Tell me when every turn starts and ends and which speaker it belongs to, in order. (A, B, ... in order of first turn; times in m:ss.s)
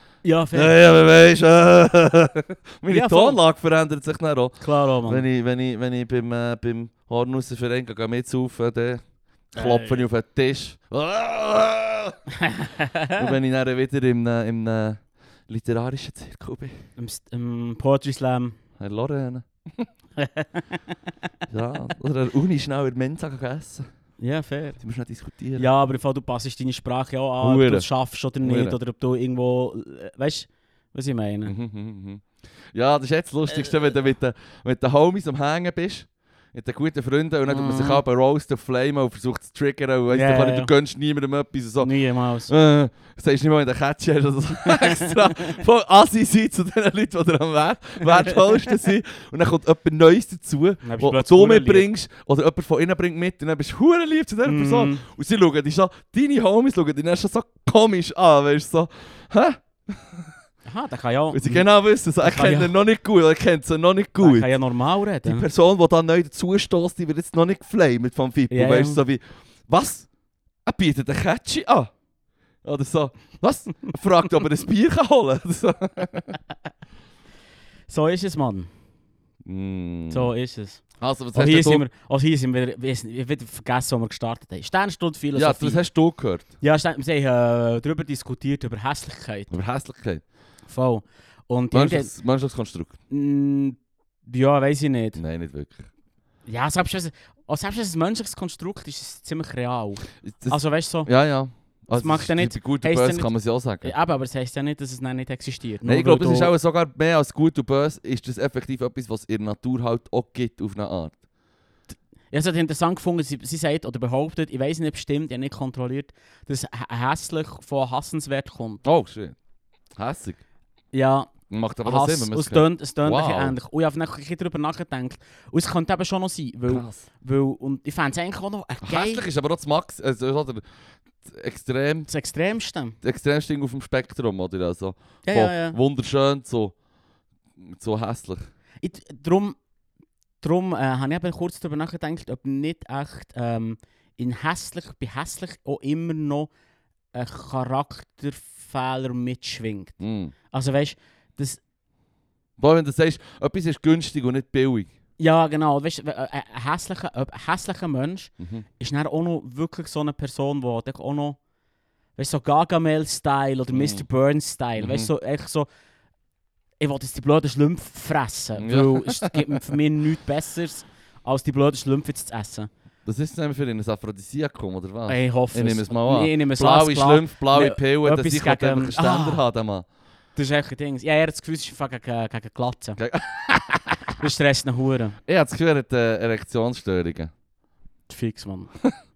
0:00.2-0:00.8 A
0:00.5-0:09.0 B
0:02.9-0:03.4 A
0:04.6-0:05.2 A
0:09.5-0:12.2 B
0:09.6-0:10.0 A
0:12.4-0:13.3 A
0:13.1-0:16.8 B
0:17.0-0:18.6 A
0:18.8-0:19.9 B
0:20.2-0:21.0 A
0:21.5-0:23.8 B
0:24.2-0:24.8 A
0:24.8-0:25.7 B
0:25.6-0:31.5 A
0:27.4-0:27.9 B
0:28.4-0:28.8 B
0:31.4-0:41.9 B
0:37.5-0:38.0 A
0:40.1-0:40.7 A
0:41.8-0:42.5 A
0:42.4-1:00.3 B
0:44.6-0:45.5 A
0:50.8-0:51.9 A
0:54.4-0:55.0 A
1:00.6-1:01.7 A
1:01.3-1:04.5 B
1:02.2-1:02.7 A
1:04.2-1:05.4 A
1:05.2-1:10.1 B
1:08.5-1:09.0 A
1:10.6-1:11.9 B
1:12.6-1:16.4 B
1:17.9-1:18.7 A
1:19.4-1:20.3 B
1:20.1-1:20.8 A
1:21.0-1:21.8 B
1:21.3-1:25.8 A
1:25.3-1:26.5 B
1:26.6-1:29.5 A
1:29.5-1:30.2 B
1:30.7-1:32.1 A
1:31.7-1:33.0 B
1:33.1-1:35.2 A
1:35.2-1:35.9 B
1:36.4-1:41.1 A
1:40.2-1:43.9 B
1:41.9-1:46.5 A
1:45.8-1:51.2 B
1:52.3-1:58.8 A
1:58.8-1:59.4 B
2:00.0-2:00.4 B
2:00.9-2:09.2 A
2:01.5-2:03.6 B
2:06.7-2:07.0 B
2:08.8-2:10.6 B
2:11.2-2:12.1 B
2:12.1-2:13.0 A
2:13.0-2:16.7 B
2:15.2-2:15.8 A
2:17.6-2:18.5 B
2:18.8-2:19.6 A
2:20.4-2:26.5 A
2:27.1-2:30.0 A
2:30.0-2:30.3 B
2:30.5-2:31.6 A
2:32.6-2:34.9 B
2:35.2-2:41.4 A
2:38.4-2:38.6 B
2:42.2-2:45.7 A
2:43.7-2:44.0 B
2:44.8-2:45.1 B
2:46.8-2:52.7 A
2:48.6-2:49.7 B
2:53.0-2:59.8 B
2:55.1-2:59.4 A
3:00.4-3:03.0 A
3:03.0-3:04.2 B
3:04.2-3:05.2 A
3:05.3-3:07.3 B
3:08.1-3:08.7 A